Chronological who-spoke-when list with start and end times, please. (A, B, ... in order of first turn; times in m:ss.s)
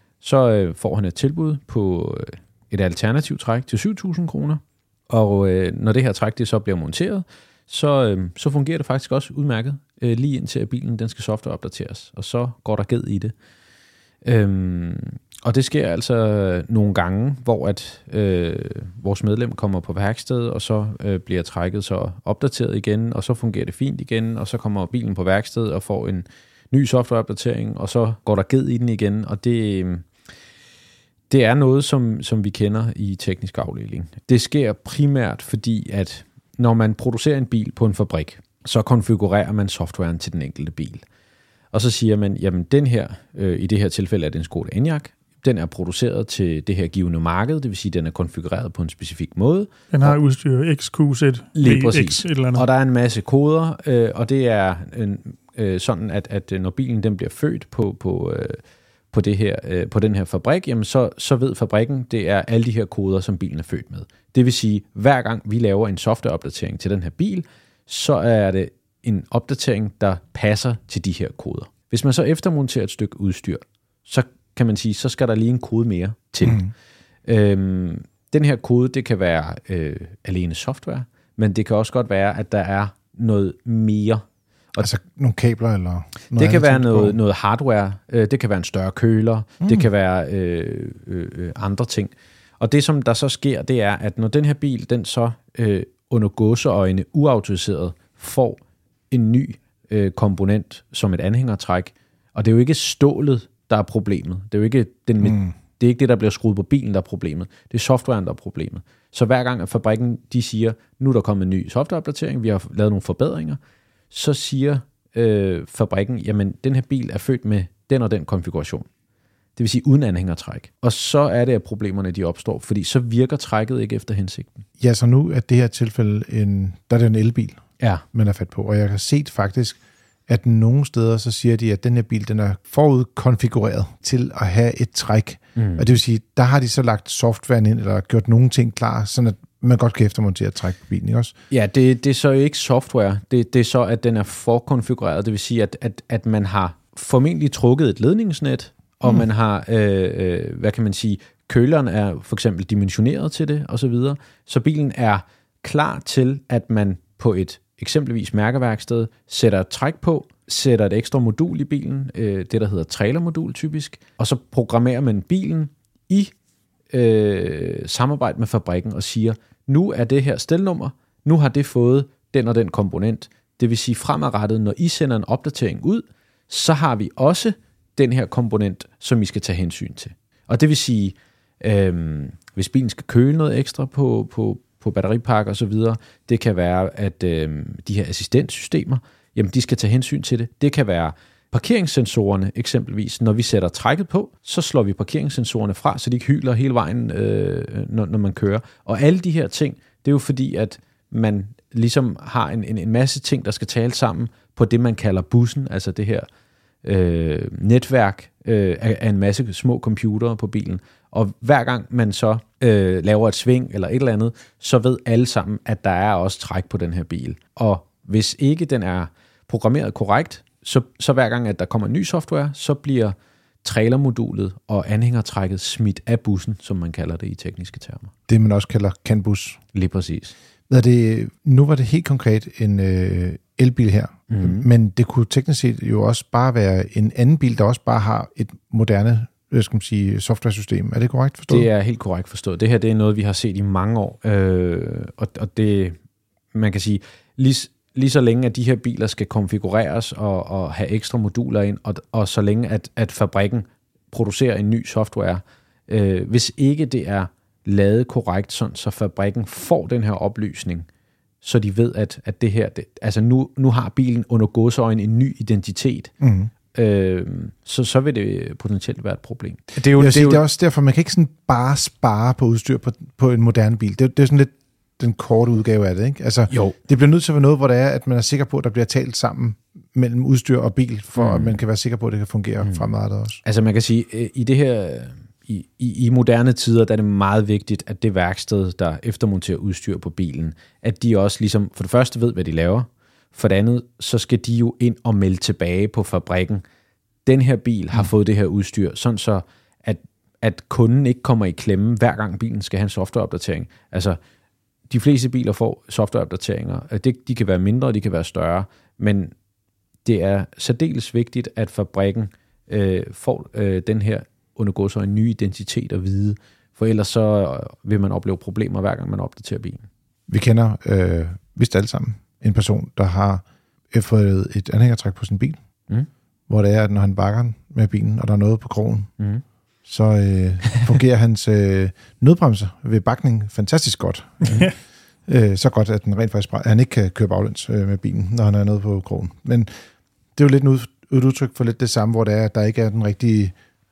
0:00.2-0:13.3 A
0:14.2-0:30.1 A
0:31.3-0:41.0 A
0:41.7-0:50.2 A
0:49.9-0:52.6 B
0:51.6-1:16.7 A
1:17.3-1:24.9 A
1:24.8-1:27.2 C
1:26.4-1:38.6 A
1:39.1-1:53.6 A
1:45.2-1:45.5 C
1:54.1-1:58.9 A
1:59.6-2:04.6 A
2:04.8-2:21.3 C
2:15.6-2:15.9 A
2:21.5-2:46.3 A
2:46.9-3:26.3 A
3:26.8-3:48.1 A
3:48.3-3:49.6 C
3:49.7-3:50.3 A
3:50.7-4:01.7 C
3:54.3-3:54.7 A
4:01.5-4:06.0 A
4:06.5-4:20.9 A
4:21.4-4:26.1 A
4:26.2-4:26.5 C
4:26.7-4:30.4 A
4:29.9-4:43.4 C
4:36.5-4:36.8 A
4:41.2-4:41.6 A
4:43.4-4:56.6 A
4:57.3-5:04.2 A
5:04.9-5:09.3 A
5:10.0-5:19.8 A
5:20.3-5:25.6 C
5:26.5-5:29.1 C
5:29.9-5:34.7 C
5:35.3-5:39.7 C
5:40.4-5:43.6 C